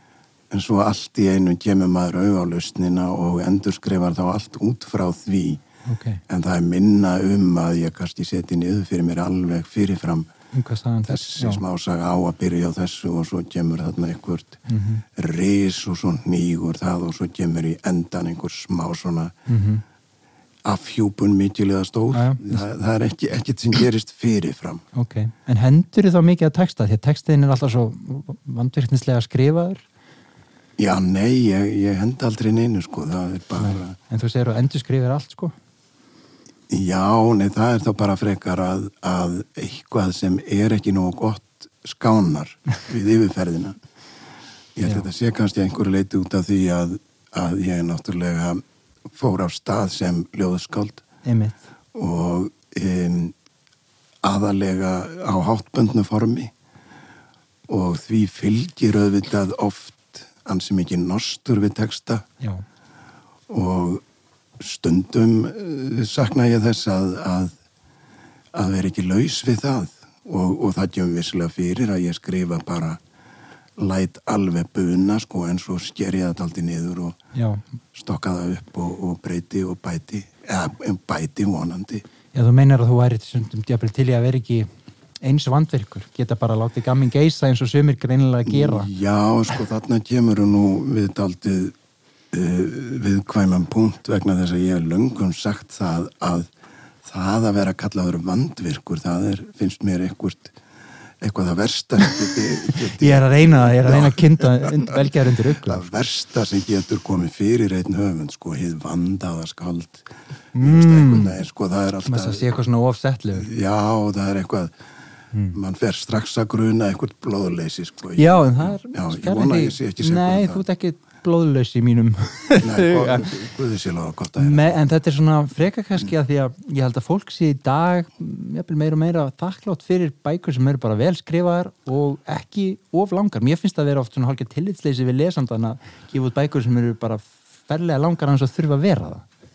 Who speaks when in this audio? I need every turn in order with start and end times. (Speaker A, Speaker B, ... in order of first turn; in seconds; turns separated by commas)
Speaker A: 0.5-5.6, Speaker B: 5.8-6.2, Speaker A: 6.3-10.3, Speaker B: 10.5-11.6, Speaker A: 11.1-14.6, Speaker B: 14.7-15.0, Speaker A: 15.2-19.3, Speaker B: 19.5-19.8, Speaker A: 20.6-24.8, Speaker B: 22.1-22.6, Speaker B: 24.9-29.8, Speaker A: 30.8-34.0, Speaker B: 33.6-35.5, Speaker A: 36.7-43.8, Speaker A: 44.8-48.6, Speaker A: 49.1-51.0, Speaker B: 51.2-51.6, Speaker A: 51.9-53.3, Speaker A: 54.2-56.5, Speaker A: 57.7-62.3, Speaker A: 63.5-64.0, Speaker A: 64.6-67.5, Speaker A: 68.5-73.0, Speaker A: 73.8-77.2, Speaker B: 77.3-77.6, Speaker A: 77.9-82.0, Speaker B: 82.3-84.7, Speaker B: 85.2-88.9, Speaker A: 88.5-91.7, Speaker A: 92.3-96.5, Speaker A: 97.0-100.5, Speaker A: 101.2-112.5, Speaker B: 102.9-105.9, Speaker B: 110.5-111.4, Speaker B: 112.0-113.5, Speaker A: 113.3-114.7, Speaker B: 115.3-115.6, Speaker A: 115.5-120.6, Speaker B: 118.2-123.3, Speaker A: 122.6-124.7, Speaker B: 124.4-139.2